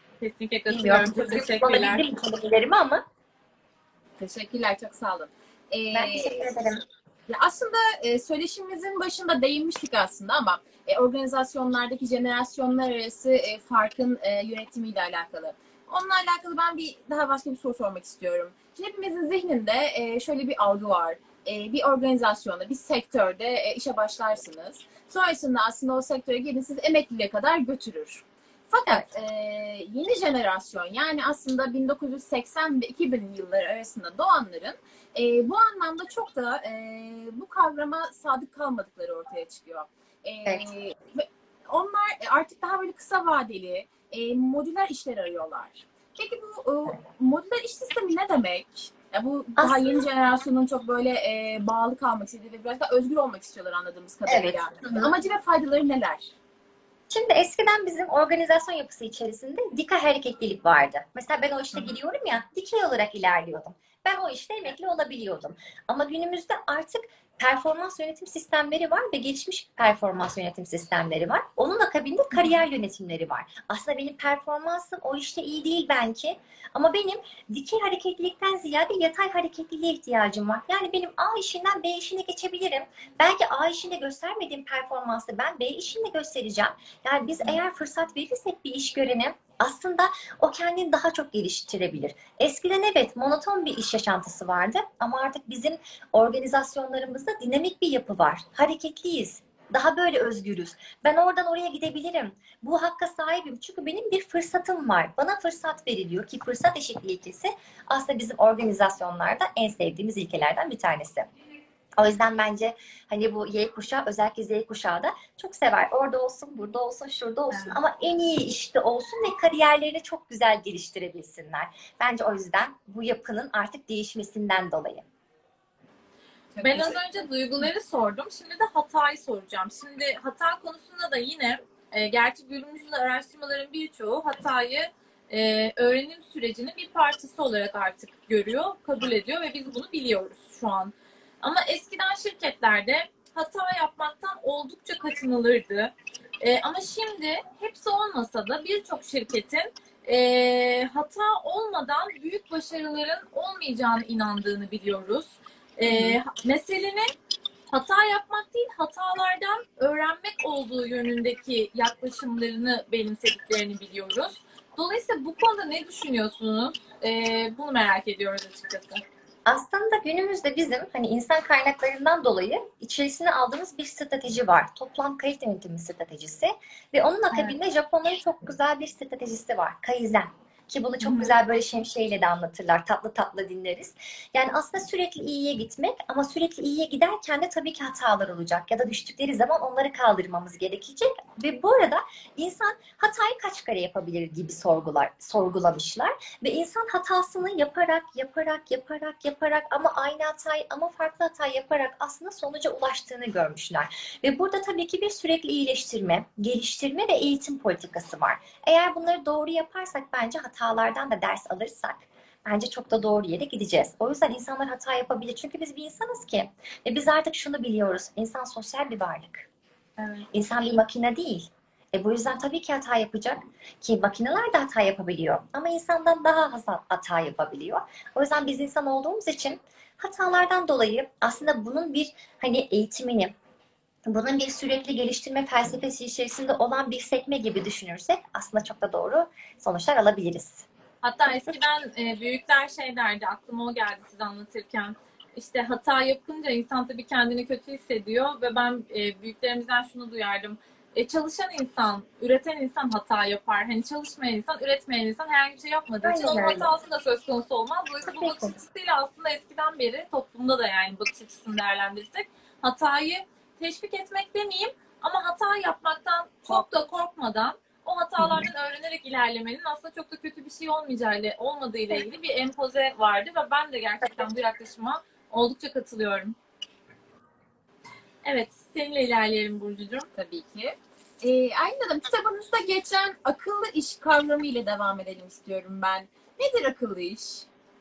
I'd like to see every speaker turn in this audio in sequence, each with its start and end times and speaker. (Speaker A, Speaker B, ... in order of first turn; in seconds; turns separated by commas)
Speaker A: 0.2-2.0, Speaker B: 0.7-3.0, Speaker C: 4.2-6.5, Speaker B: 5.9-6.8, Speaker C: 7.3-56.3, Speaker B: 28.9-29.1, Speaker B: 54.3-55.1, Speaker B: 57.1-111.3, Speaker B: 112.0-125.0, Speaker A: 117.5-117.8, Speaker C: 126.5-127.0, Speaker A: 126.6-157.1, Speaker B: 155.9-156.2, Speaker A: 157.7-169.0, Speaker B: 169.4-219.5, Speaker A: 181.0-181.3, Speaker A: 220.0-220.3, Speaker B: 220.3-233.3, Speaker B: 234.1-240.7, Speaker A: 241.0-276.4, Speaker B: 256.0-256.7, Speaker B: 258.0-258.5, Speaker B: 268.2-268.5, Speaker A: 278.2-280.1, Speaker C: 280.1-287.5